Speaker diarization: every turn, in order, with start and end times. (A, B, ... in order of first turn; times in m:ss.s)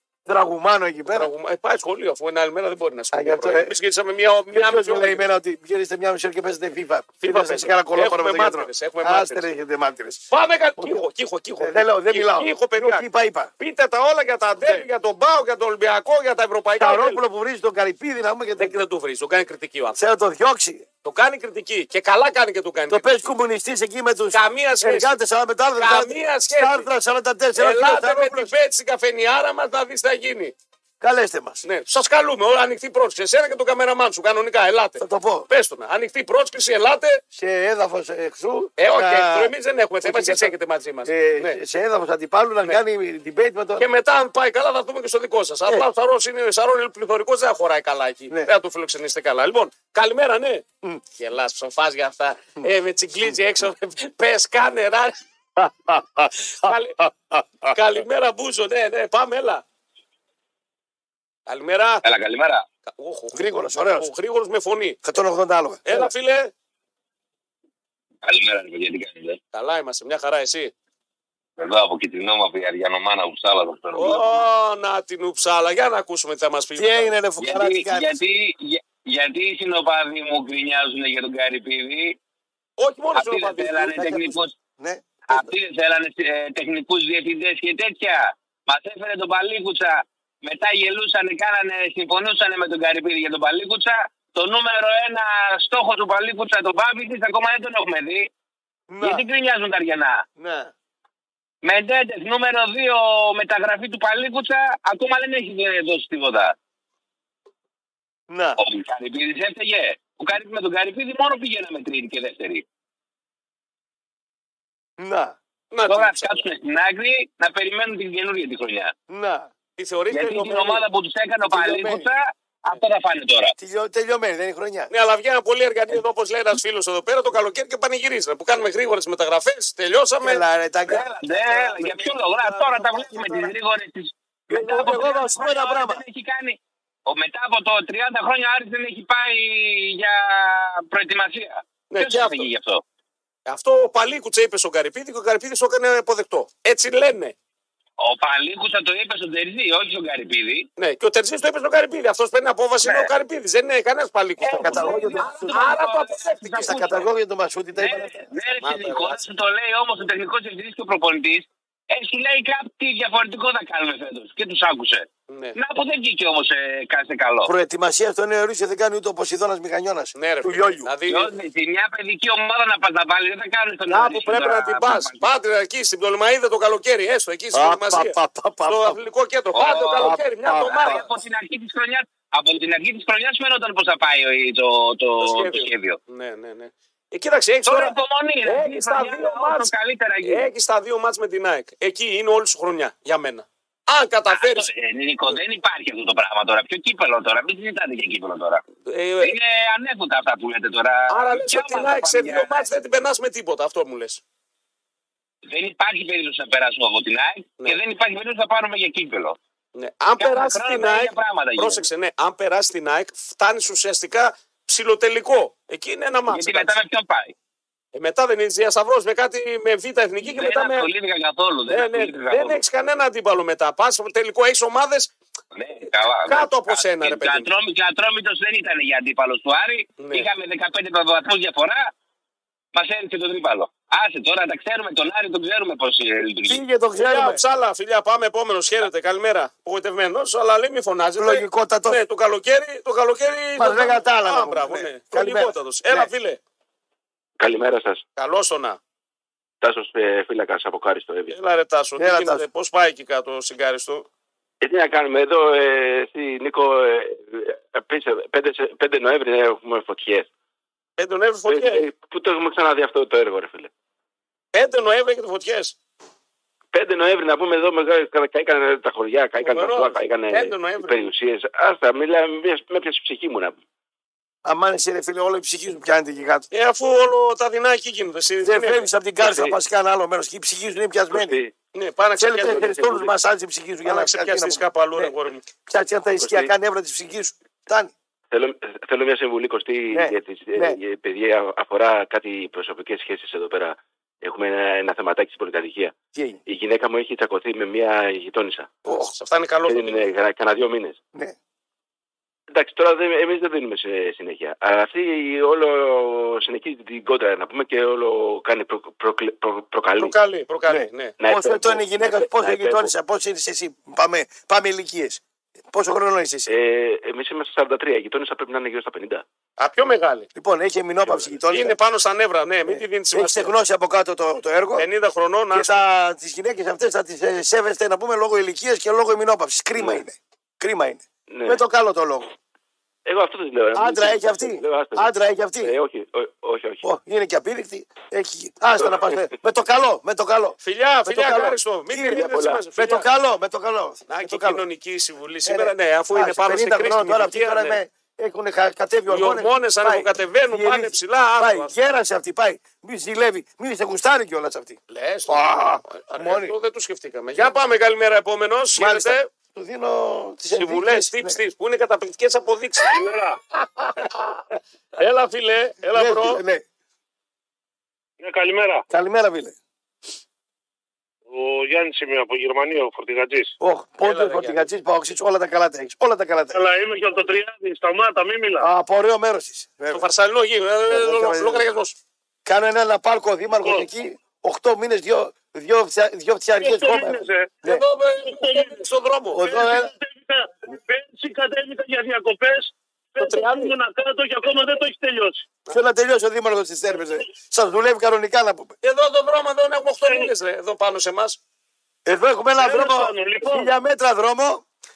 0:00.2-0:01.3 A
0:01.1-0:05.2 B
0:03.1-0:03.7 A
0:04.5-0:10.2 A
0:07.2-0:09.5 B
0:10.3-0:13.0 B
0:10.8-0:11.0 A
0:11.6-0:13.5 A
0:13.6-0:17.2 B
0:16.8-0:18.8 A
0:18.6-0:20.0 B
0:20.0-0:20.8 A
0:21.0-0:23.3 B
0:22.9-0:28.5 A
0:24.3-0:25.2 B
0:25.8-0:26.9 B
0:27.6-0:30.5 B
0:31.0-0:31.6 A
0:31.6-0:37.2 B
0:35.0-0:35.5 A
0:37.3-0:43.9 A
0:38.8-0:41.6 B
0:43.8-0:50.6 B
0:51.2-0:55.2 B
0:55.6-0:57.8 A
0:56.6-0:57.0 B
0:57.7-0:59.6 B
1:01.5-1:02.0 B
1:02.0-1:02.6 C
1:02.8-1:05.0 B
1:03.3-1:04.1 A
1:05.0-1:06.1 A
1:05.8-1:06.5 B
1:08.2-1:09.4 C
1:09.5-1:10.7 B
1:11.6-1:14.4 C
1:13.9-1:17.1 B
1:16.8-1:18.1 A
1:17.4-1:22.2 C
1:22.8-1:24.0 B
1:23.1-1:24.5 C
1:23.9-1:25.5 A
1:25.3-1:38.3 C
1:38.9-1:39.2 A
1:39.0-1:40.2 C
1:40.4-1:40.7 A
1:41.6-1:46.5 C
1:48.3-1:48.6 A
1:48.6-1:52.6 C
1:55.0-1:55.4 A
1:55.7-1:56.4 B
1:55.9-1:58.9 C
1:59.1-1:59.5 A
1:59.8-2:00.8 B
2:00.1-2:03.5 C
2:01.4-2:02.1 A
2:03.6-2:04.9 A
2:04.9-2:10.4 B
2:10.2-2:13.5 A
2:10.9-2:22.8 C
2:14.5-2:16.0 A
2:21.9-2:22.5 B
2:23.5-2:27.3 B
2:28.0-2:30.7 C
2:30.8-2:37.0 B
2:32.8-2:33.1 C
2:34.4-2:37.1 C
2:34.6-2:35.7 A
2:36.6-2:38.3 A
2:37.7-2:47.5 C
2:38.6-2:39.2 B
2:45.3-2:45.6 B
2:47.4-2:50.9 A
2:50.1-2:51.3 B
2:51.1-2:55.3 C
2:53.9-3:01.0 B
2:57.5-2:59.0 A
2:59.5-3:06.0 C
3:00.0-3:01.1 A
3:05.2-3:09.7 B
3:07.6-3:10.5 C
3:10.2-3:14.7 B
3:14.3-3:18.6 C
3:18.8-3:19.3 B
3:19.2-3:22.7 C
3:21.1-3:24.2 B
3:25.5-3:29.4 C
3:29.7-3:36.7 B
3:30.2-3:31.8 C
3:36.3-3:37.3 C
3:37.9-3:40.9 B
3:40.2-3:42.6 C
3:41.7-3:45.1 B
3:45.5-3:51.9 C
3:46.2-3:47.5 B
3:50.0-3:50.3 B
3:52.7-3:56.6 C
3:56.5-3:57.4 A
3:57.0-4:06.4 B
4:01.2-4:02.0 A
4:03.6-4:06.1 A
4:07.4-4:08.0 D
4:08.2-4:08.8 B
4:09.6-4:11.4 D
4:11.3-4:14.1 B
4:12.0-4:12.4 A
4:14.6-4:20.3 D
4:21.0-4:21.8 B
4:21.5-4:23.7 D
4:24.5-4:25.8 B
4:26.7-4:33.6 D
4:29.4-4:31.1 B
4:34.4-4:36.5 A
4:36.5-4:38.9 B
4:38.4-4:41.4 A
4:39.2-4:39.6 D
4:41.1-4:41.5 D
4:41.7-4:43.1 B
4:42.2-4:45.1 A
4:42.3-4:43.0 D
4:43.8-4:45.4 B
4:45.7-4:47.9 A
4:46.2-4:46.5 D
4:48.3-4:55.9 D
4:49.9-4:50.8 A
4:56.1-4:56.4 A
4:56.5-4:58.7 D
4:58.8-4:59.1 A
4:58.9-5:00.1 B
4:59.7-5:01.0 D
5:02.5-5:10.2 D
5:10.0-5:11.1 B
5:10.7-5:16.5 A
5:11.2-5:12.9 D
5:16.5-5:19.2 D
5:19.6-5:20.3 B
5:20.3-5:21.8 A
5:21.5-5:23.5 B
5:22.6-5:24.9 A
5:24.8-5:25.8 B
5:25.5-5:32.3 A
5:29.8-5:30.0 D
5:31.3-5:31.6 D
5:33.0-5:36.8 D
5:33.7-5:35.7 A
5:36.8-5:44.6 A
5:38.8-5:39.3 D
5:40.6-5:43.1 B
5:42.1-5:42.6 D
5:44.1-5:47.8 B
5:45.4-5:56.5 A
5:49.1-5:51.7 B
5:54.9-5:59.3 B
5:58.8-6:01.4 A
6:00.5-6:03.1 B
6:02.9-6:03.4 E
6:03.9-6:06.4 B
6:05.9-6:06.6 A
6:08.2-6:08.8 E
6:08.9-6:09.6 A
6:11.3-6:13.5 E
6:13.6-6:16.6 A
6:14.0-6:14.7 B
6:16.5-6:18.7 E
6:18.6-6:20.0 A
6:19.9-6:22.0 B
6:20.9-6:21.6 A
6:22.4-6:27.8 A
6:26.6-6:27.5 E
6:27.6-6:29.4 B
6:28.2-6:28.8 E
6:29.3-6:29.9 A
6:29.4-6:35.4 E
6:33.2-6:33.7 B
6:35.7-6:38.7 A
6:38.8-6:41.4 B
6:42.0-6:44.6 A
6:42.6-6:43.7 E